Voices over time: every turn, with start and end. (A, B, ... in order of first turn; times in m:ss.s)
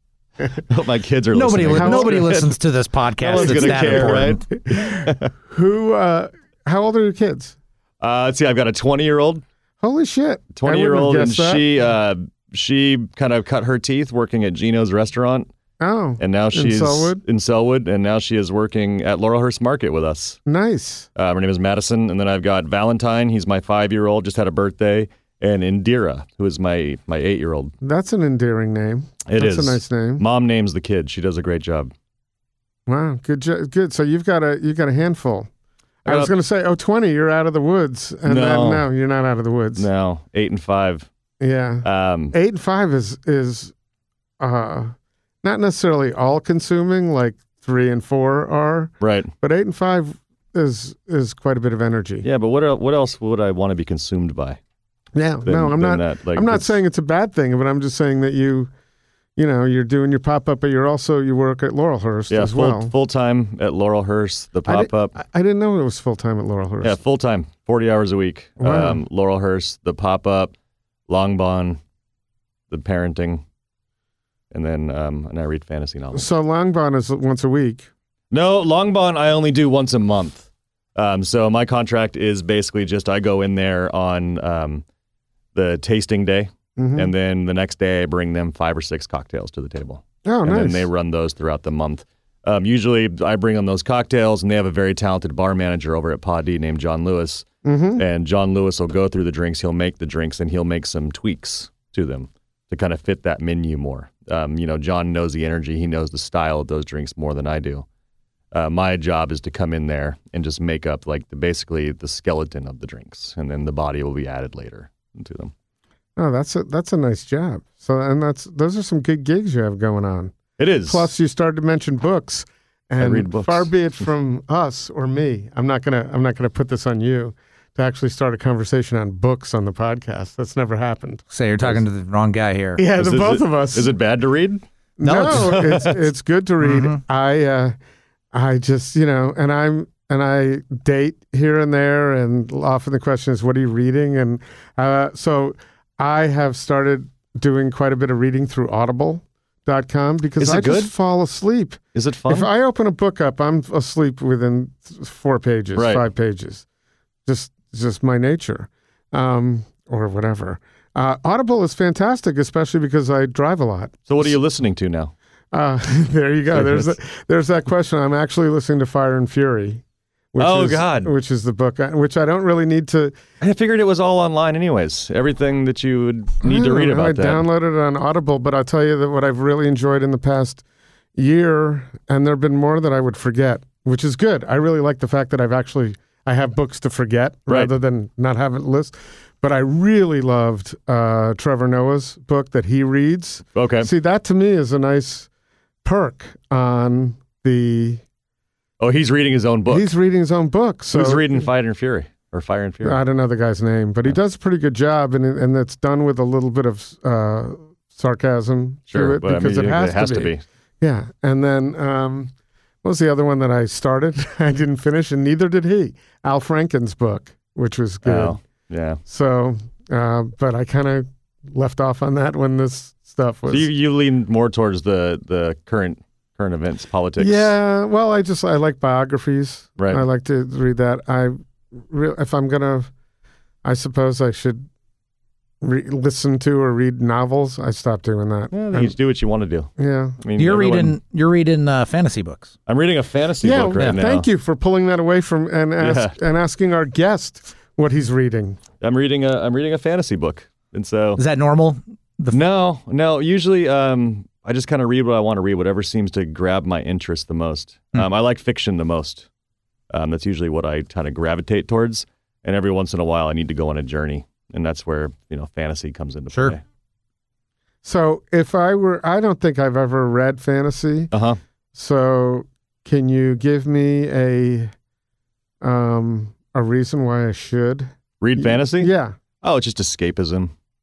0:00.7-0:02.5 A
0:01.3-0:04.4 B
0:01.7-0:02.4 C
0:03.2-0:05.2 A
0:03.4-0:07.5 C
0:08.0-0:09.4 A
0:09.8-0:11.6 C
0:10.5-0:15.5 A
0:15.8-0:17.2 C
0:16.2-0:20.4 A
0:20.4-0:21.1 C
0:21.2-0:27.7 A
0:27.8-0:30.2 C
0:29.2-0:31.9 A
0:32.9-0:35.5 C
0:36.0-0:39.9 C
0:36.0-0:36.3 A
0:38.2-0:38.9 A
0:39.8-0:41.1 A
0:41.4-0:43.7 C
0:41.8-0:42.3 A
0:44.4-0:52.3 C
0:49.0-0:49.3 A
0:52.2-0:54.6 A
0:55.1-0:58.7 C
0:55.4-0:56.7 A
0:59.4-1:02.9 C
1:02.3-1:05.1 A
1:04.6-1:07.0 C
1:06.8-1:10.5 A
1:08.6-1:09.0 C
1:11.1-1:11.8 A
1:12.7-1:13.4 A
1:14.5-1:16.3 A
1:16.1-1:17.9 C
1:18.3-1:24.8 A
1:25.5-1:47.8 A
1:26.8-1:27.1 C
1:30.2-1:30.9 C
1:37.6-1:38.0 C
1:48.5-1:55.5 A
1:56.2-2:11.8 C
2:00.6-2:01.1 A
2:03.0-2:03.7 A
2:11.3-2:12.8 B
2:12.8-2:13.9 C
2:13.0-2:14.6 A
2:15.0-2:17.8 C
2:15.0-2:15.9 B
2:15.3-2:15.6 A
2:16.6-2:17.0 B
2:18.3-2:36.6 C
2:30.4-2:30.9 A
2:31.9-2:32.5 A
2:35.8-2:36.0 A
2:37.2-2:44.3 C
2:44.1-2:45.1 A
2:45.5-2:49.8 C
2:46.5-2:46.9 A
2:50.3-2:53.1 C
2:50.4-2:51.1 A
2:53.4-2:57.4 A
2:56.4-3:00.6 C
3:01.1-3:15.3 C
3:13.5-3:13.9 A
3:15.8-3:18.0 C
3:18.8-3:19.9 A
3:19.7-3:21.4 C
3:20.9-3:23.0 A
3:22.8-3:32.3 C
3:28.9-3:30.4 A
3:32.8-3:38.4 C
3:38.0-3:39.0 A
3:39.0-3:43.7 C
3:43.5-3:47.5 A
3:47.2-3:52.9 C
3:49.8-3:50.0 A
3:53.6-3:54.7 C
3:55.6-3:58.9 C
3:58.5-4:01.0 A
3:59.8-4:00.2 C
4:00.4-4:02.5 B
4:02.7-4:04.2 A
4:03.4-4:08.6 C
4:05.8-4:06.1 A
4:08.8-4:11.2 A
4:11.2-4:12.4 B
4:12.3-4:19.2 A
4:19.9-4:26.6 A
4:27.8-4:31.1 C
4:31.1-4:31.4 A
4:31.7-4:34.7 C
4:35.6-4:39.2 C
4:38.2-4:38.9 A
4:39.4-4:40.5 A